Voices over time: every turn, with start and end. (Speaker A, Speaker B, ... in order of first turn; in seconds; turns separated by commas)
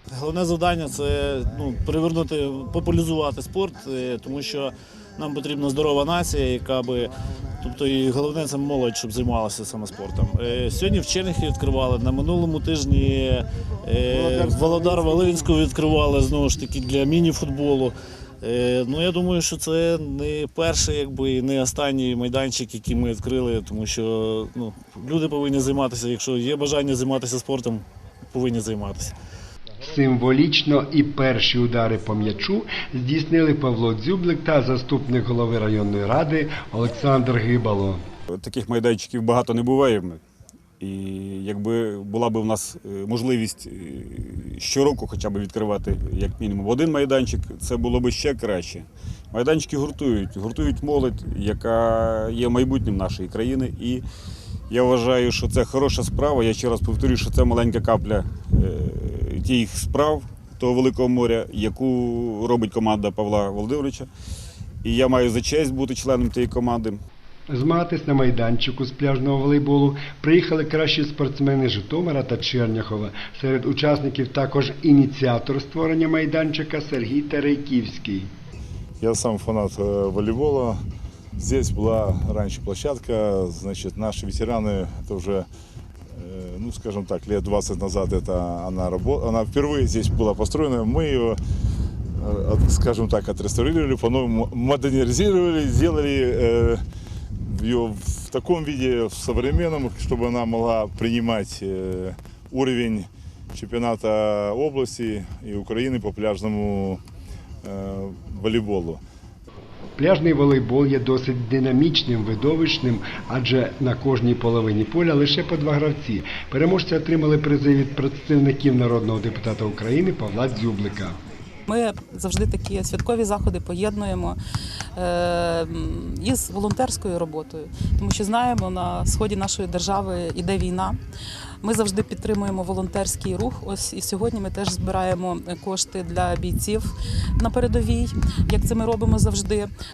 Speaker A: 0.1-29.1, Speaker B: 29.8-38.0, Speaker C: 38.3-40.2, Speaker C: 40.8-54.0, Speaker C: 54.7-64.1, Speaker C: 64.8-67.0, Speaker B: 67.5-78.3, Speaker D: 79.0-80.8, Speaker D: 81.4-85.5, Speaker D: 86.1-91.4, Speaker D: 92.2-96.8, Speaker D: 97.5-107.0, Speaker D: 107.6-109.0, Speaker B: 110.0-121.2, Speaker E: 121.7-124.4, Speaker E: 125.0-131.0, Speaker E: 131.6-139.7